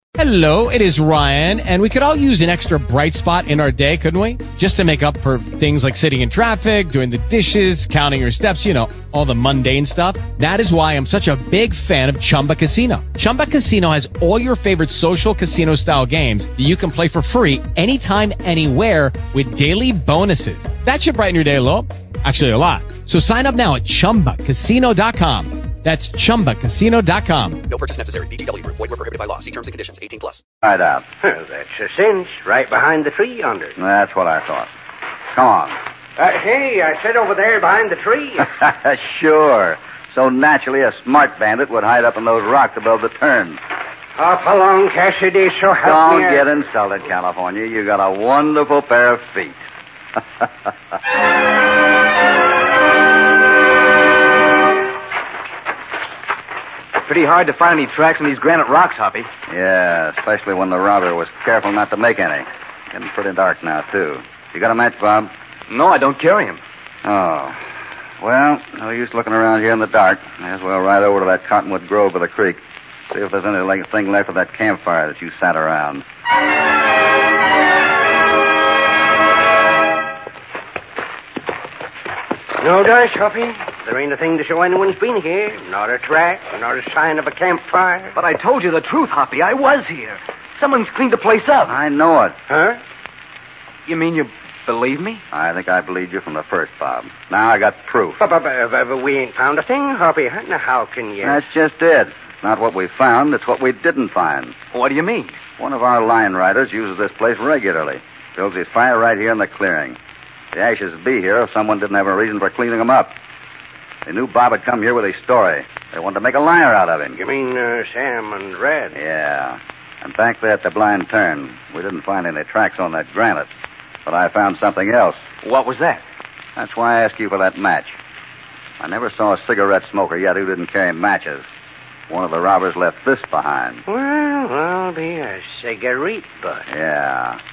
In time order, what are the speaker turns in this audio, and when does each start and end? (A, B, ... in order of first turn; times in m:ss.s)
0:00.2-0:27.7 A
0:27.7-0:30.4 B
0:30.6-0:31.0 C
0:31.2-0:33.7 D
0:33.8-0:34.7 C
0:35.3-0:35.8 C
0:36.2-0:38.5 D
0:38.6-0:43.6 C
0:44.2-0:46.5 D
0:45.8-0:49.6 C
0:57.1-0:59.3 E
0:59.5-1:05.3 C
1:05.7-1:06.6 E
1:07.0-1:07.6 C
1:08.2-1:16.0 C
1:22.6-1:28.2 D
1:28.2-1:31.7 E
1:31.6-1:32.4 C
1:32.5-1:32.8 D
1:33.9-1:35.2 E
1:35.3-1:38.2 C
1:38.2-1:41.5 D
1:41.2-1:44.5 C
1:44.7-1:45.4 E
1:45.6-1:50.0 C
1:50.5-1:53.2 C
1:54.1-1:57.2 C
1:57.2-1:59.0 D
1:59.0-2:03.5 C
2:04.1-2:05.2 C
2:05.4-2:06.0 E
2:06.6-2:08.0 C
2:08.8-2:11.5 C
2:12.1-2:13.8 C
2:13.9-2:16.7 D
2:16.7-2:17.4 C